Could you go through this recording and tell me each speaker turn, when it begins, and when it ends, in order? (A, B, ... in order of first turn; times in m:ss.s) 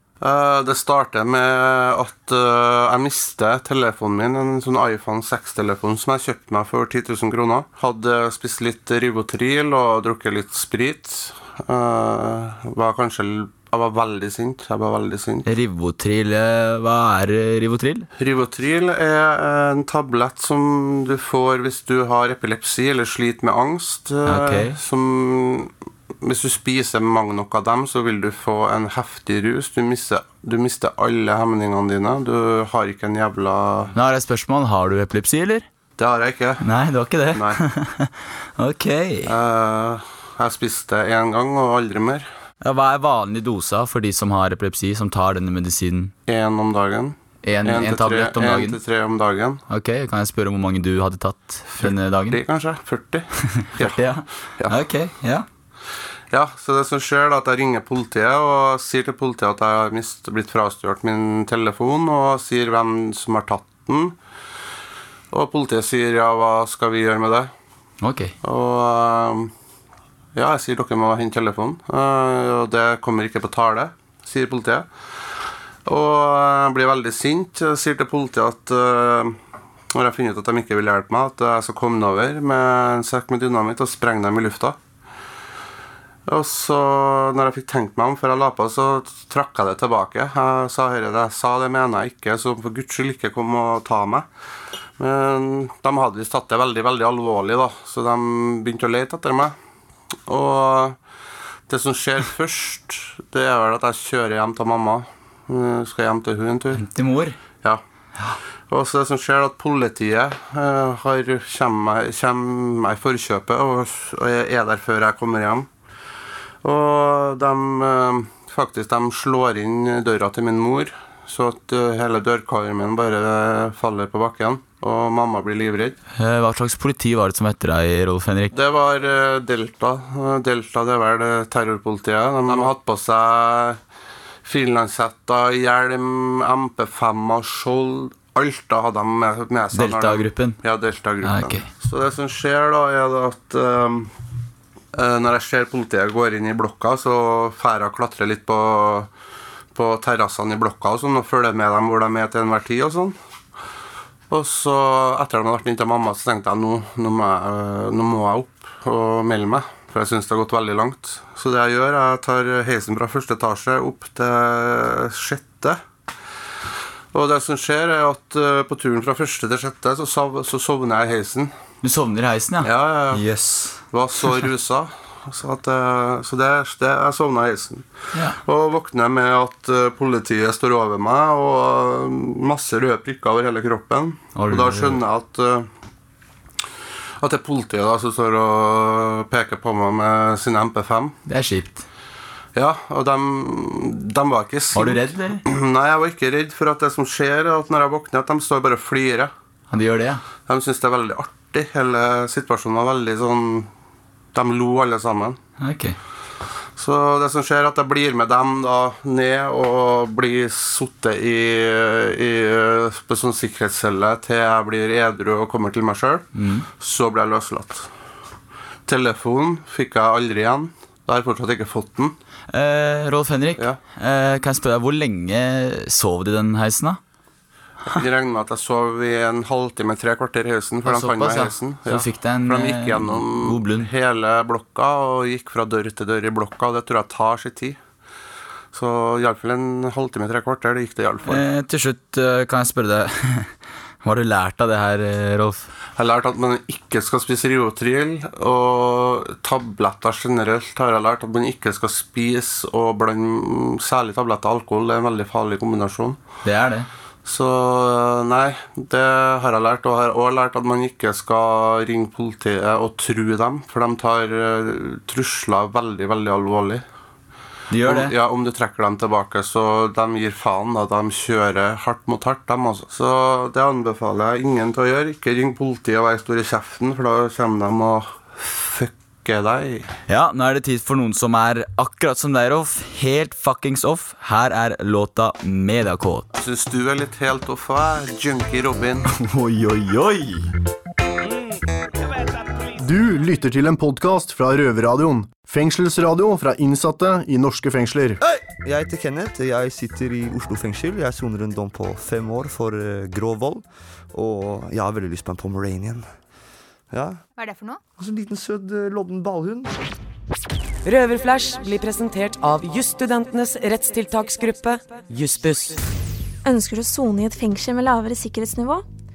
0:00.2-0:15.5 A
0:15.4-0:18.1 B
0:18.2-0:25.7 A
0:24.2-0:24.8 B
0:26.2-0:33.9 A
0:33.9-0:35.7 B
0:36.0-0:36.6 A
0:36.6-0:39.3 B
0:37.3-0:37.6 A
0:39.2-0:42.3 A
0:42.6-0:46.1 B
0:46.3-0:49.6 A
0:47.4-0:48.8 B
0:49.7-0:52.4 B
0:51.8-0:54.8 A
0:53.7-0:55.5 B
0:56.3-1:04.2 A
1:05.3-1:07.5 A
1:08.0-1:08.3 B
1:08.4-1:09.5 A
1:10.3-1:14.9 A
1:15.8-1:19.4 A
1:19.9-1:24.8 A
1:26.3-1:34.2 A
1:35.0-1:39.5 A
1:40.3-1:41.0 A
1:41.7-1:46.9 A
1:46.7-1:47.3 B
1:48.7-1:55.7 A
1:56.6-2:06.0 A
2:06.1-2:08.5 B
2:08.5-2:13.8 A
2:14.4-2:24.1 A
2:19.7-2:20.6 B
2:21.2-2:21.7 B
2:24.9-2:29.1 A
2:29.7-2:33.2 A
2:34.3-2:45.8 A
2:47.1-2:51.5 A
2:51.8-2:54.4 B
2:52.6-2:53.3 A
2:53.9-3:05.7 A
3:04.3-3:05.0 B
3:07.2-3:11.2 A
3:11.3-3:11.8 B
3:12.5-3:19.3 A
3:14.7-3:15.4 B
3:19.7-3:20.2 B
3:20.5-3:23.7 A
3:24.3-3:25.4 A
3:25.6-3:26.0 B
3:26.8-3:37.9 A
3:36.3-3:36.6 B
3:38.9-3:42.1 A
3:42.5-3:47.0 B
3:47.9-3:57.8 A
3:50.8-3:53.9 B
3:58.7-4:01.4 A
4:01.2-4:05.7 B
4:06.0-4:16.2 A
4:16.4-4:16.9 B
4:17.2-4:26.8 A
4:27.7-4:28.1 B
4:27.8-4:39.9 A
4:40.1-4:46.3 B
4:46.4-4:49.1 A
4:49.2-4:50.4 B
4:52.8-4:58.2 C
4:58.2-5:06.1 D
5:06.9-5:07.2 D
5:08.0-5:09.7 D
5:10.8-5:15.8 E
5:16.4-5:18.8 F